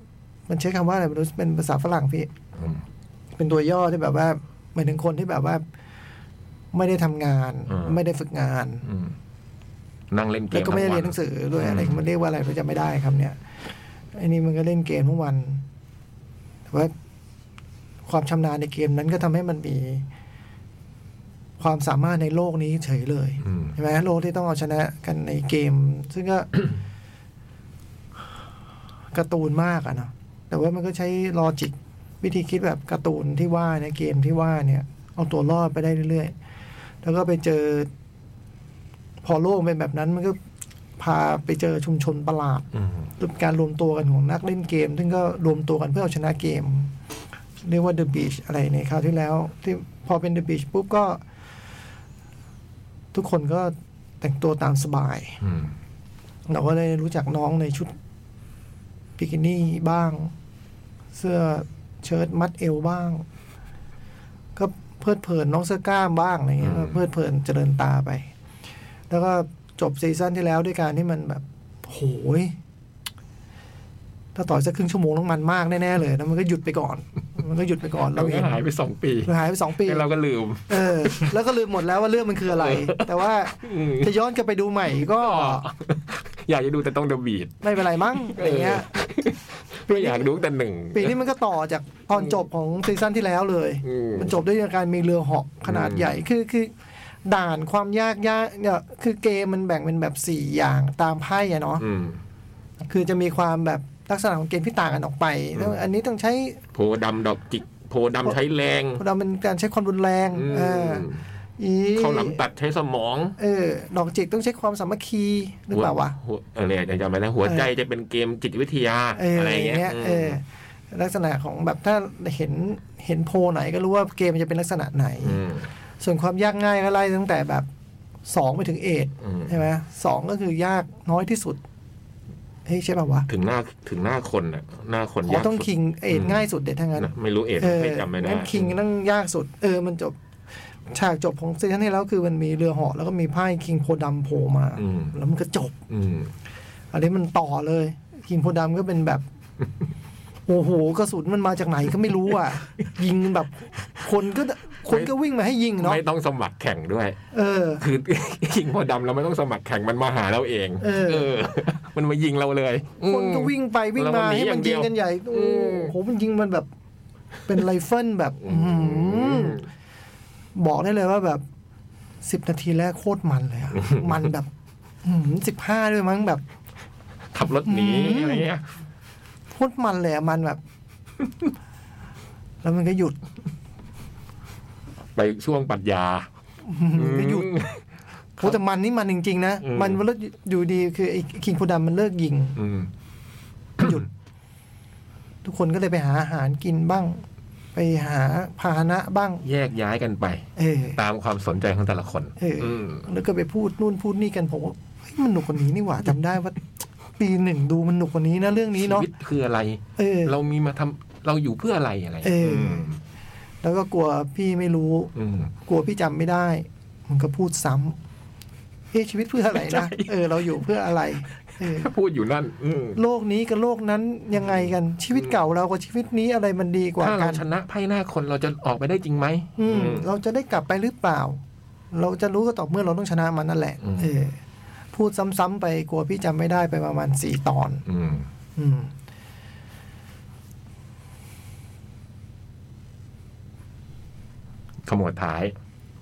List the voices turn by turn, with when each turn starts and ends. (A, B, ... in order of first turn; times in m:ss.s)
0:00.5-0:02.3 A
0:02.6-0:02.8 B
0:03.4-0:05.6 A
0:06.7-0:08.8 A
0:07.7-0:08.0 B
0:08.8-0:09.1 B
0:10.1-0:12.0 B
0:10.5-0:13.4 A
0:14.1-0:15.6 A
0:18.1-0:20.0 A
0:21.6-0:26.5 A
0:23.4-0:23.8 B
0:29.1-0:36.3 A
0:37.0-0:37.9 A
0:39.2-0:40.4 A
0:41.0-0:42.7 A
0:42.7-0:43.1 B
0:43.2-0:46.9 A
0:47.6-0:51.2 A
0:53.1-0:55.4 A
0:55.4-0:55.7 B
0:56.5-0:57.9 A
0:59.2-1:00.3 A
1:01.2-1:03.2 A
1:04.6-1:08.3 A
1:06.6-1:07.0 B
1:09.1-1:12.6 A
1:14.4-1:18.6 A
1:18.1-1:21.3 B
1:19.3-1:20.0 A
1:20.7-1:25.6 A
1:22.5-1:24.1 B
1:25.1-1:31.2 B
1:27.6-1:28.9 A
1:29.9-1:30.3 A
1:30.9-1:36.7 A
1:33.8-1:34.4 B
1:35.7-1:36.2 B
1:37.2-1:41.8 A
1:41.8-1:42.2 B
1:42.8-1:46.6 A
1:45.6-1:45.8 B
1:46.8-1:49.0 B
1:49.0-1:51.1 A
1:50.3-1:51.2 B
1:51.6-1:52.4 A
1:52.0-1:53.4 B
1:53.4-1:56.2 A
1:55.7-2:00.4 B
1:59.2-2:05.4 A
2:05.2-2:05.7 B
2:06.0-2:07.7 A
2:08.3-2:11.6 A
2:09.2-2:09.6 B
2:12.7-2:13.3 A
2:13.3-2:18.8 B
2:15.3-2:20.2 A
2:20.9-2:25.7 A
2:24.8-2:25.2 B
2:25.9-2:26.3 B
2:26.9-2:29.2 A
2:30.5-2:36.0 A
2:35.8-2:37.2 B
2:37.3-2:37.8 A
2:37.8-2:45.9 B
2:40.8-2:41.3 A
2:43.1-2:46.7 A
2:47.5-2:49.6 A
2:48.4-2:49.6 B
2:50.6-2:51.4 A
2:52.2-2:54.5 A
2:53.8-2:54.2 B
2:55.0-2:56.4 A
2:57.3-2:58.6 B
2:57.7-2:58.5 A
2:59.5-3:00.6 A
3:02.6-3:03.2 A
3:05.2-3:06.3 B
3:06.7-3:07.5 A
3:07.0-3:07.8 B
3:08.4-3:12.6 A
3:09.6-3:10.0 B
3:12.6-3:12.9 B
3:13.8-3:14.1 A
3:15.4-3:17.2 A
3:17.8-3:19.4 A
3:19.4-3:23.0 B
3:20.6-3:21.0 A
3:22.4-3:26.6 A
3:27.2-3:29.1 A
3:28.8-3:33.0 B
3:30.0-3:30.3 A
3:32.2-3:32.9 A
3:33.6-3:35.1 A
3:35.2-3:35.5 B
3:35.7-3:38.0 A
3:38.9-3:41.9 A
3:39.5-3:40.5 B
3:41.5-3:43.0 B
3:43.0-3:47.4 A
3:44.4-3:45.3 B
3:47.0-3:50.1 B
3:49.6-3:51.4 A
3:51.9-3:54.4 A
3:53.8-3:54.1 B
3:54.9-3:57.8 A
3:57.9-3:58.3 B
3:58.6-3:58.9 A
4:04.9-4:05.5 B